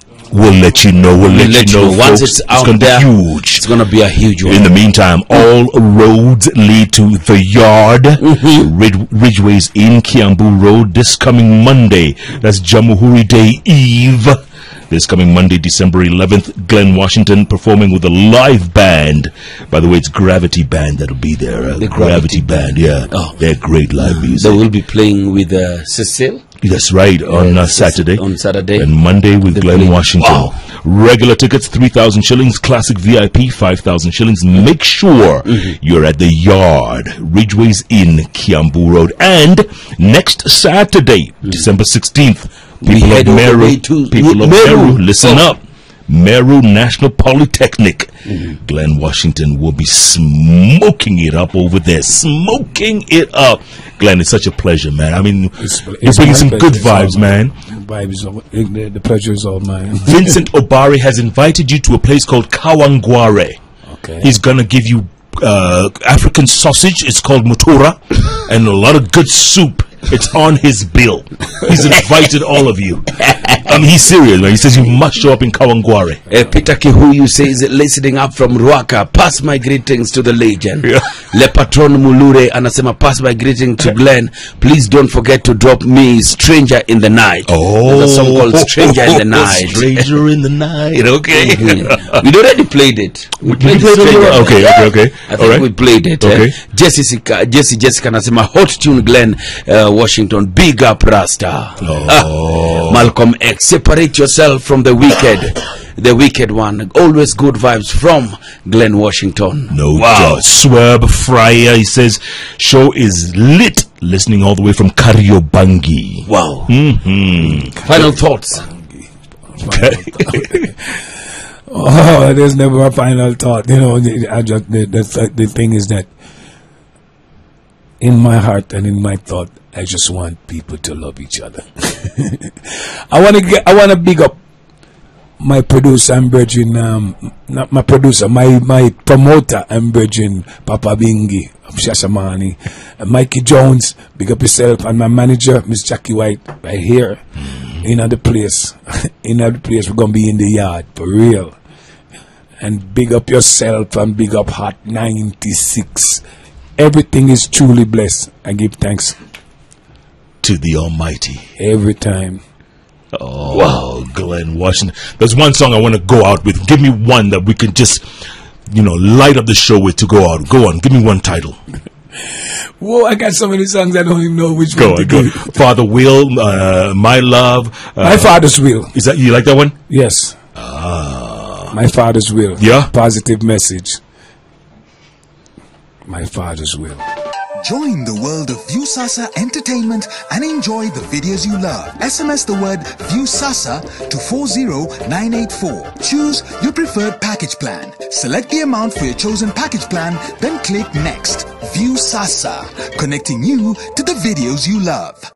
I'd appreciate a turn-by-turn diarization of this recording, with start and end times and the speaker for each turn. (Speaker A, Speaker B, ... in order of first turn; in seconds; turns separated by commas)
Speaker A: 0.3-3.6, Speaker B: 1.2-4.8, Speaker A: 4.5-24.6, Speaker B: 8.2-8.6, Speaker B: 21.8-23.4, Speaker B: 23.9-26.4, Speaker A: 26.6-28.2, Speaker B: 27.2-28.9, Speaker A: 28.8-57.5, Speaker B: 29.5-30.5, Speaker B: 42.8-45.4, Speaker C: 55.6-60.4, Speaker A: 60.0-63.6, Speaker C: 63.9-64.3, Speaker A: 64.2-76.2, Speaker B: 76.3-90.1, Speaker A: 87.5-92.2, Speaker B: 91.3-110.4, Speaker A: 93.4-95.7, Speaker A: 96.2-96.5, Speaker A: 101.8-103.1, Speaker A: 109.7-117.8, Speaker B: 116.3-116.7, Speaker C: 117.5-118.1, Speaker B: 117.8-118.7, Speaker C: 119.5-120.8, Speaker A: 119.7-120.7, Speaker C: 121.7-126.1, Speaker C: 128.0-134.3, Speaker C: 135.4-151.6, Speaker C: 152.6-156.2, Speaker C: 156.8-159.2, Speaker A: 160.4-161.5, Speaker C: 161.6-162.4, Speaker A: 163.1-168.1, Speaker A: 168.7-171.6, Speaker C: 172.8-175.6, Speaker A: 174.7-179.8, Speaker C: 178.0-178.9, Speaker C: 179.9-180.3, Speaker A: 180.6-181.7, Speaker C: 181.7-184.0, Speaker A: 182.6-182.9, Speaker C: 186.1-187.1, Speaker D: 187.6-205.2